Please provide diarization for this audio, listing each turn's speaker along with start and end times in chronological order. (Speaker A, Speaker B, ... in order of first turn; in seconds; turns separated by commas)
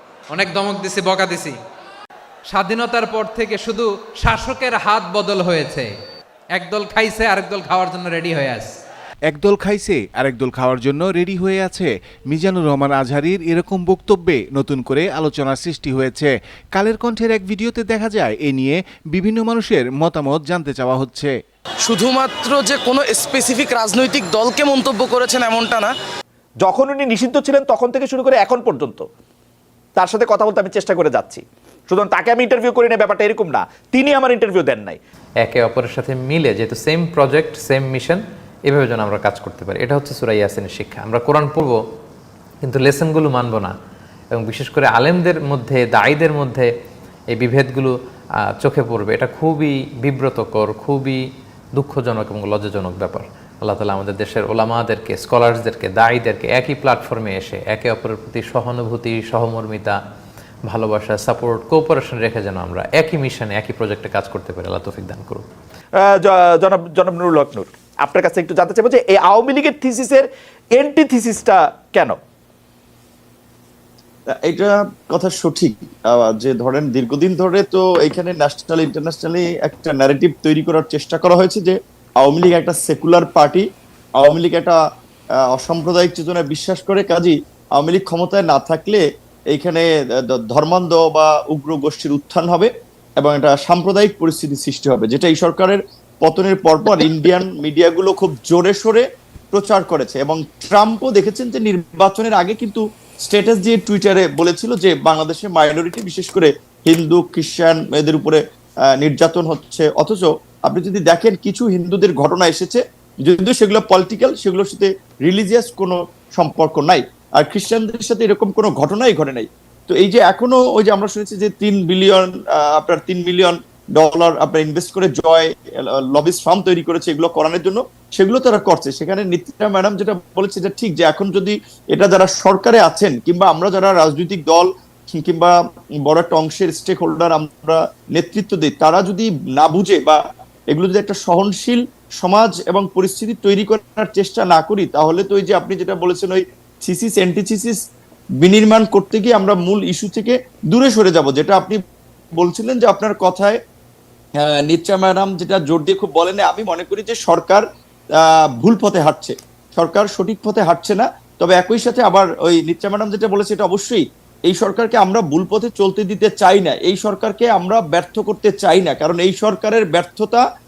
Speaker A: 0.3-1.6, Speaker A: 2.5-5.8, Speaker A: 6.5-8.7, Speaker B: 9.3-21.3, Speaker C: 21.9-25.9, Speaker D: 26.6-29.1, Speaker D: 30.0-35.0, Speaker E: 35.4-41.8, Speaker E: 42.6-43.7, Speaker E: 44.3-46.7, Speaker E: 47.3-47.9, Speaker E: 48.6-51.2, Speaker E: 51.8-60.0, Speaker E: 60.7-65.4, Speaker D: 66.0-72.2, Speaker F: 74.4-83.7, Speaker F: 84.2-84.8, Speaker F: 85.5-108.4, Speaker F: 109.0-135.5, Speaker F: 136.1-140.2, Speaker F: 140.7-147.8, Speaker F: 148.4-151.8, Speaker F: 152.4-153.6, Speaker F: 154.4-157.6, Speaker F: 158.6-170.4